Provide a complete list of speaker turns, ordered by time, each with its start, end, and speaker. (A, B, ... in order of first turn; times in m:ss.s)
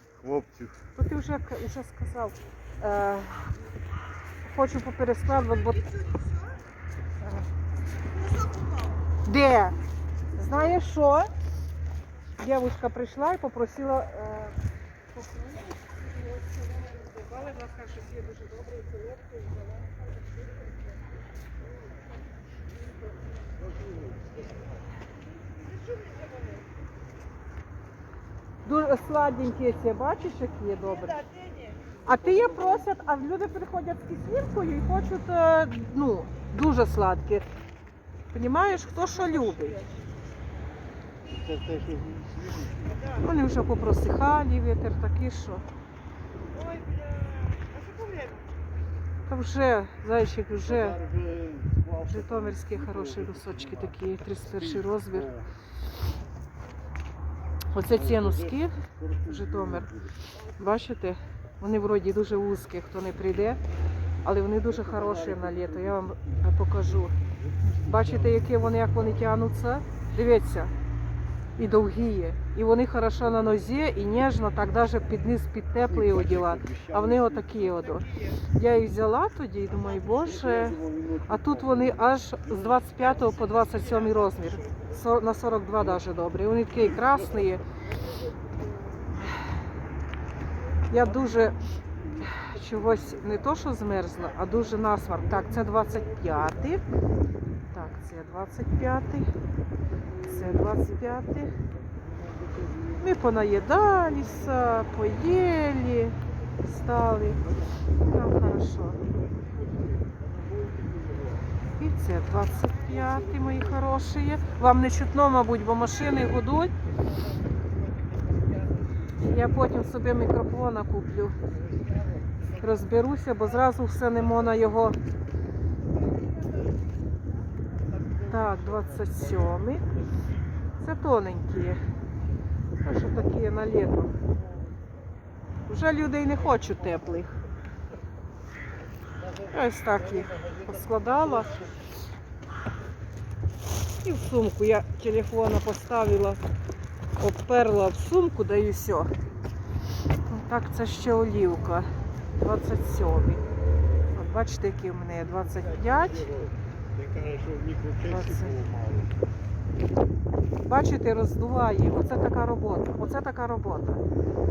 0:00.2-0:00.9 A
0:01.0-0:03.6 B
0:04.4-0:06.0 B
0:09.2-0:09.8 B
0:10.4-0:11.3 B
0:12.4-0:14.6 B
0:15.1-0:15.7 B
0:16.8-0:19.2 B
0:28.6-0:31.4 B
0:32.0-0:37.4 B
0:38.3-0:39.9 B
0:41.3-0:43.1 A
0:43.1-0:45.6 B
0:49.3-0:51.0 B
0:50.6-0:55.5 A
0:52.1-0:55.3 B
0:57.7-0:59.9 B
0:57.8-1:00.2 A
1:00.5-1:03.6 B
1:04.2-1:07.2 B
1:04.7-1:06.4 A
1:07.1-1:09.0 A
1:07.8-1:10.7 B
1:11.6-1:27.6 B
1:15.8-1:18.0 A
1:20.2-1:22.0 A
1:30.9-1:31.6 B
1:32.2-1:36.8 B
1:37.7-1:39.3 B
1:40.2-1:41.6 B
1:43.0-1:49.0 B
1:50.1-1:51.3 A
1:51.8-1:56.7 B
1:59.2-2:01.4 B
2:02.6-2:05.0 B
2:08.0-2:09.3 A
2:08.3-2:09.9 B
2:10.8-2:11.8 B
2:12.8-2:14.1 B
2:15.7-2:17.3 B
2:19.4-2:21.6 B
2:24.0-2:26.4 B
2:27.2-2:29.1 B
2:30.3-2:33.4 B
2:34.1-2:36.3 B
2:35.6-2:39.2 A
2:38.0-2:38.6 B
2:40.6-2:44.0 B